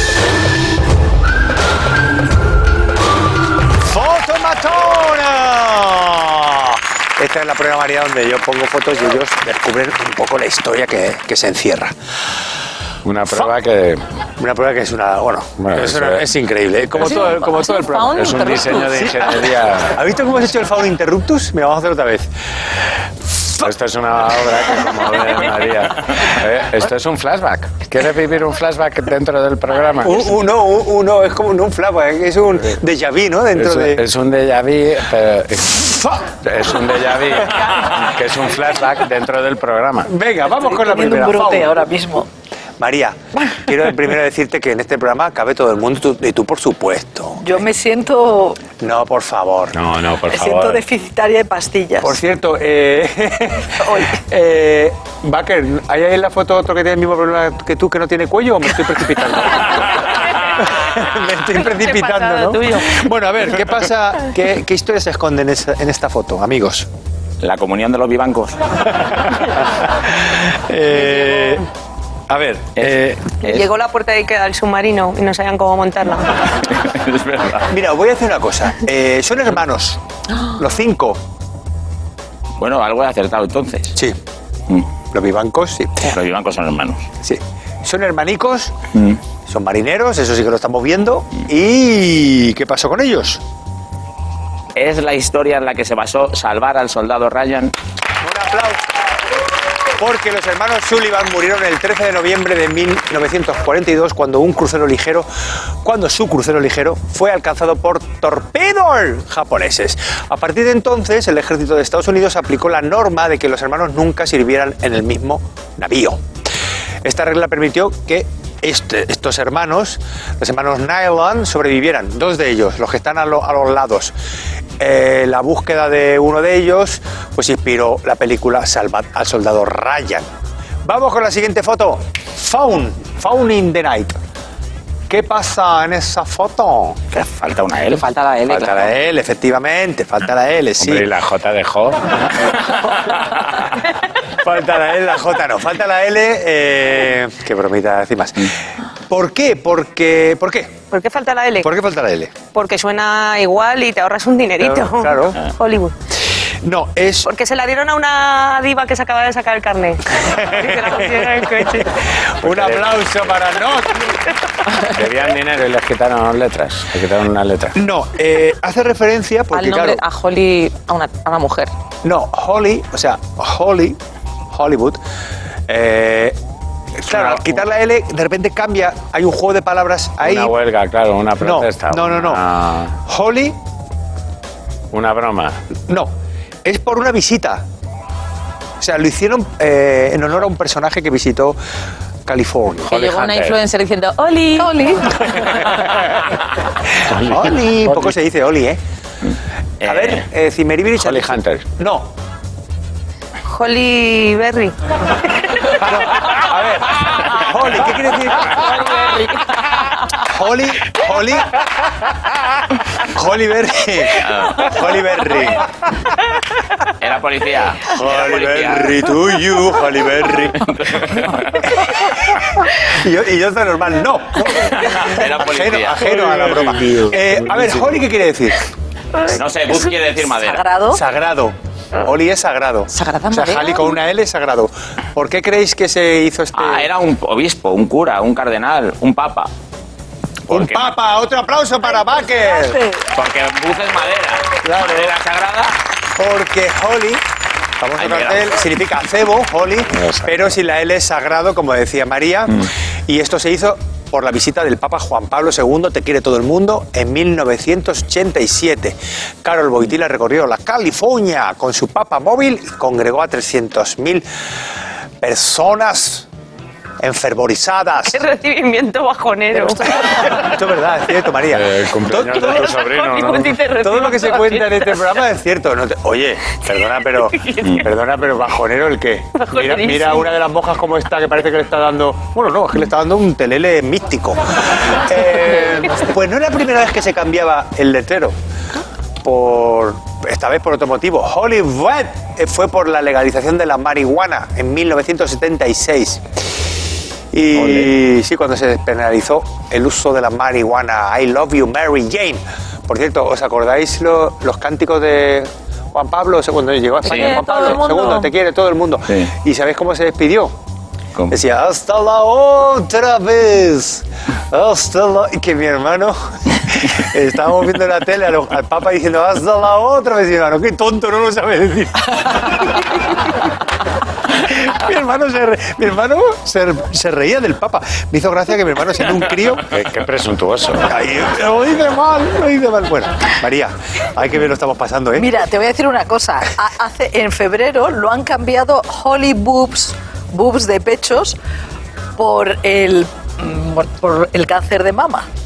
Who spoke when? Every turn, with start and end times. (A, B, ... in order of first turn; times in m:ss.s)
0:03.8-0:11.9 A
0:13.0-0:14.0 B
0:14.4-0:18.2 A
0:15.6-0:16.3 B
0:16.9-0:17.4 B
0:17.0-0:19.1 C
0:18.0-0:20.0 B
0:18.9-0:22.3 A
0:23.4-0:23.7 A
0:23.6-0:30.3 B
0:30.0-0:34.0 A
0:33.5-0:40.1 B
0:40.0-0:41.8 A
0:40.5-0:42.3 D
0:42.8-0:47.5 A
0:47.4-0:48.6 D
0:48.8-0:49.8 A
0:49.7-0:50.8 B
0:50.3-0:52.2 D
0:52.0-1:06.9 A
0:53.8-0:54.2 D
1:01.5-1:03.0 E
1:07.4-1:08.6 F
1:09.0-1:11.6 A
1:12.3-1:13.3 A
1:12.8-1:13.7 F
1:13.4-1:16.3 E
1:16.6-1:17.7 F
1:17.7-1:20.0 A
1:20.6-1:21.2 A
1:22.6-1:23.9 F
1:25.1-1:26.1 A
1:26.0-1:27.0 F
1:27.2-1:28.8 A
1:28.9-1:29.2 F
1:29.5-1:33.4 A
1:34.8-1:37.7 F
1:38.2-1:38.8 A
1:40.0-1:45.3 A
1:45.8-1:56.2 A
1:57.0-2:04.1 A
2:04.8-2:10.3 A
2:10.8-2:14.2 A
2:15.1-2:17.0 A
2:17.1-2:18.0 F
2:17.9-2:18.9 C
2:18.5-2:21.0 A
2:20.8-2:22.1 B
2:24.4-2:28.5 A
2:29.1-2:30.8 A
2:30.9-2:31.7 E
2:31.6-2:32.4 A
2:32.5-2:35.9 E
2:34.6-2:35.4 A
2:36.6-2:37.3 A
2:37.2-2:41.9 E
2:40.2-2:44.2 A
2:42.4-2:43.3 B
2:44.8-2:47.8 B
2:47.8-2:50.0 A
2:49.5-2:51.7 C
2:52.0-2:54.0 A
2:54.5-2:55.0 A
2:55.7-2:56.4 A
2:57.0-3:00.5 A
2:57.1-2:57.6 B
3:00.2-3:03.0 B
3:01.4-3:02.4 A
3:03.0-3:03.6 A
3:04.9-3:05.6 B
3:06.6-3:07.6 A
3:08.8-3:11.6 A
3:12.2-3:13.0 A
3:12.8-3:14.7 C
3:12.9-3:13.6 B
3:14.6-3:15.4 D
3:17.0-3:18.1 B
3:17.2-3:18.8 A
3:19.8-3:20.2 F
3:19.8-3:22.1 A
3:21.0-3:21.6 B
3:23.4-3:24.8 E
3:25.7-3:29.1 A
3:28.7-3:29.3 E
3:30.2-3:31.7 A
3:33.0-3:36.0 A
3:34.1-3:34.7 F
3:36.9-3:39.1 F
3:37.9-3:40.7 A
3:40.2-3:41.8 F
3:41.5-3:48.7 A
3:44.6-3:47.0 F
3:47.4-3:47.8 B
3:49.2-3:50.6 F
3:50.4-3:51.0 D
3:50.9-3:56.9 A
3:52.9-3:53.9 C
3:56.6-3:59.5 F
4:00.5-4:01.0 F
4:00.5-4:02.8 A
4:01.9-4:03.0 D
4:03.1-4:05.8 F
4:04.6-4:05.1 A
4:06.2-4:07.2 A
4:07.8-4:24.2 A
4:08.0-4:08.6 F
4:09.8-4:10.5 B
4:25.2-4:26.2 A
4:27.0-4:28.2 A
4:28.1-4:30.4 E
4:29.9-4:32.7 A
4:31.5-4:33.6 B
4:32.3-4:35.1 E
4:33.8-4:48.3 A
4:36.8-4:37.9 E
4:39.4-4:40.3 E
4:49.2-4:56.2 A
4:57.3-5:10.5 A
4:57.5-4:57.9 B
5:07.0-5:07.8 F
5:07.0-5:08.3 C
5:11.3-5:22.8 A
5:24.3-5:29.6 A
5:29.7-5:30.9 B
5:30.8-5:35.3 A
5:35.2-5:41.4 D
5:42.2-5:45.2 D